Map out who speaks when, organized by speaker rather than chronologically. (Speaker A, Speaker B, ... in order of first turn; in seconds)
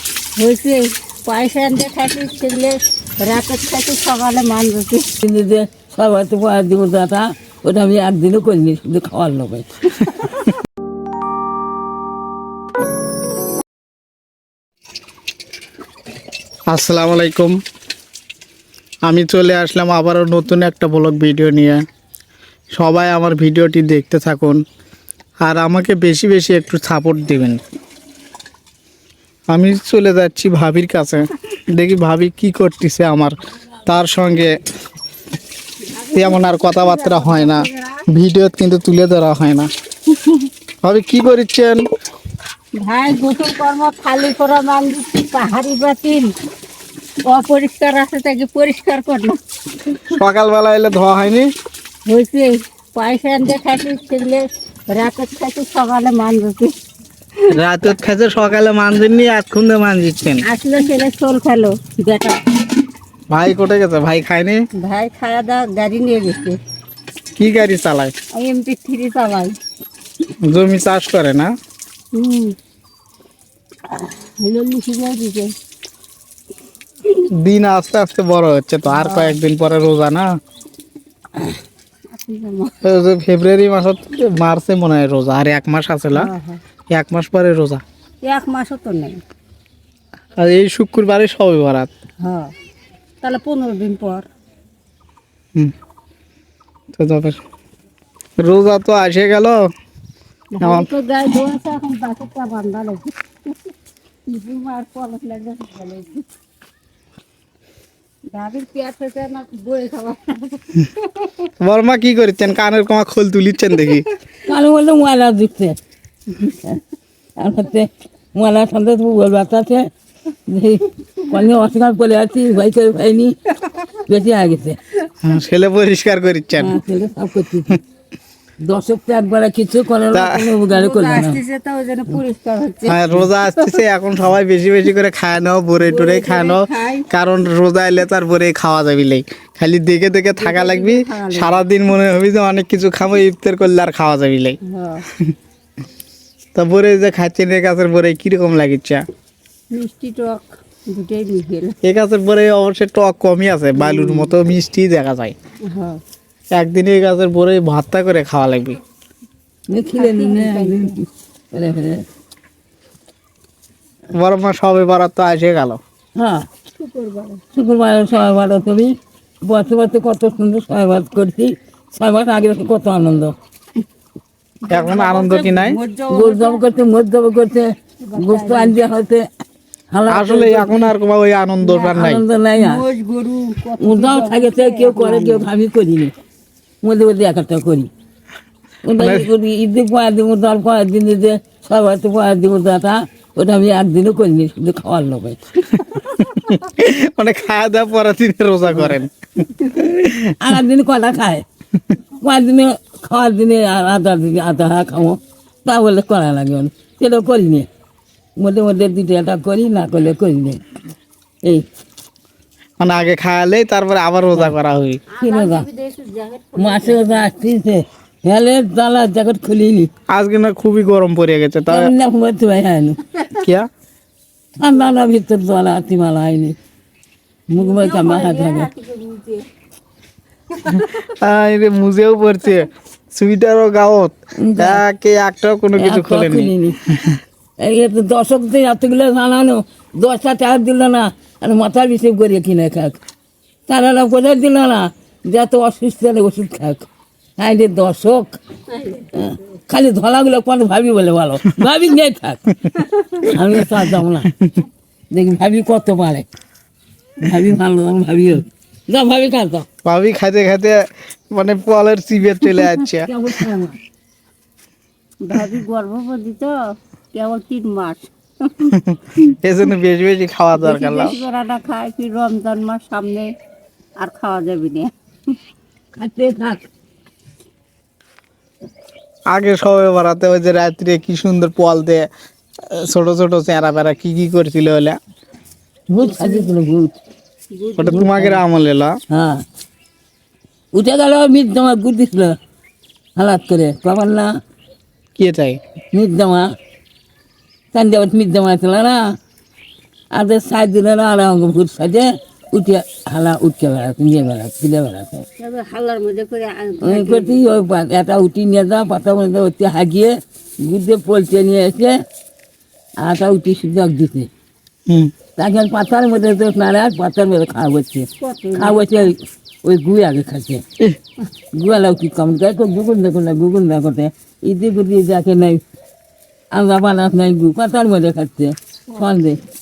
Speaker A: 0.4-5.1, 35.9-38.0, 40.2-40.4, 42.8-46.3, 47.3-49.4, 52.1-56.8, 60.5-62.4, 64.8-66.6, 68.4-69.5, 72.2-72.6, 73.9-75.5, 78.9-79.4, 82.1-82.8, 86.1-86.6, 88.3-89.2, 92.2-92.5, 93.2-94.3, 100.5-103.1, 104.3-106.2, 108.3-111.5, 130.7-133.0, 135.8-137.1, 140.3-141.7, 144.7-145.0, 149.7-151.8, 153.8-154.3, 155.7-156.0, 159.9-161.0, 166.8-167.4, 174.7-176.7, 178.0-178.8, 182.6-185.5, 215.1-217.4, 227.6-229.4, 248.7-249.0, 265.2-266.6, 267.1-268.7, 270.6-273.3, 274.0-274.9, 286.0-286.5, 287.6-288.1, 305.4-307.4, 318.2-319.0
Speaker B: 5.2-9.7, 114.4-115.8, 117.4-123.4, 123.9-124.8, 126.6-127.8, 128.7-131.4, 159.7-161.0, 161.5-162.1, 166.2-166.5, 167.5-173.3, 176.1-179.3, 179.9-180.9, 181.9-182.8, 183.8-186.1, 186.8-187.9, 188.8-195.5, 198.7-199.0, 200.3-201.4, 202.2-207.7, 208.4-210.6, 215.2-215.7, 216.6-219.9, 221.7-223.0, 224.6-226.6, 227.5-228.7, 234.4-234.8, 235.8-236.8, 237.6-243.0, 243.7-246.9, 247.4-248.4, 249.1-252.4, 253.2-254.3, 255.1-256.3, 257.2-259.7, 263.0-263.8, 275.9-276.6, 285.9-287.0, 287.9-288.4, 289.1-289.4, 290.8-292.4, 293.2-294.3, 295.9-296.5, 297.7-299.0, 300.1-305.3, 306.8-312.0, 313.0-314.3, 315.4-320.6, 321.6-325.6, 326.5-329.4
Speaker C: 16.7-17.6, 19.1-21.8, 22.8-24.6, 25.4-27.6, 29.5-33.3, 33.9-34.5, 36.1-39.7, 40.8-41.8, 50.1-51.5, 57.5-60.4, 63.3-64.6, 67.4-68.1, 70.4-71.5, 77.4-80.3, 82.8-86.3, 86.9-87.8, 90.4-91.9, 97.0-97.4, 98.4-99.6, 100.6-100.9, 111.6-114.1, 125.2-126.8, 130.1-130.4, 132.9-144.6, 146.6-149.0, 151.8-155.3, 156.5-158.8, 164.1-165.8, 174.7-175.8, 180.1-182.2, 189.0-189.3, 196.2-200.3, 212.8-215.0, 220.1-221.9, 223.3-223.7, 230.7-237.2, 259.8-260.8, 261.3-263.1, 268.7-271.2, 279.3-282.1, 282.6-285.0, 287.8-288.9, 295.2-295.6, 314.9-315.2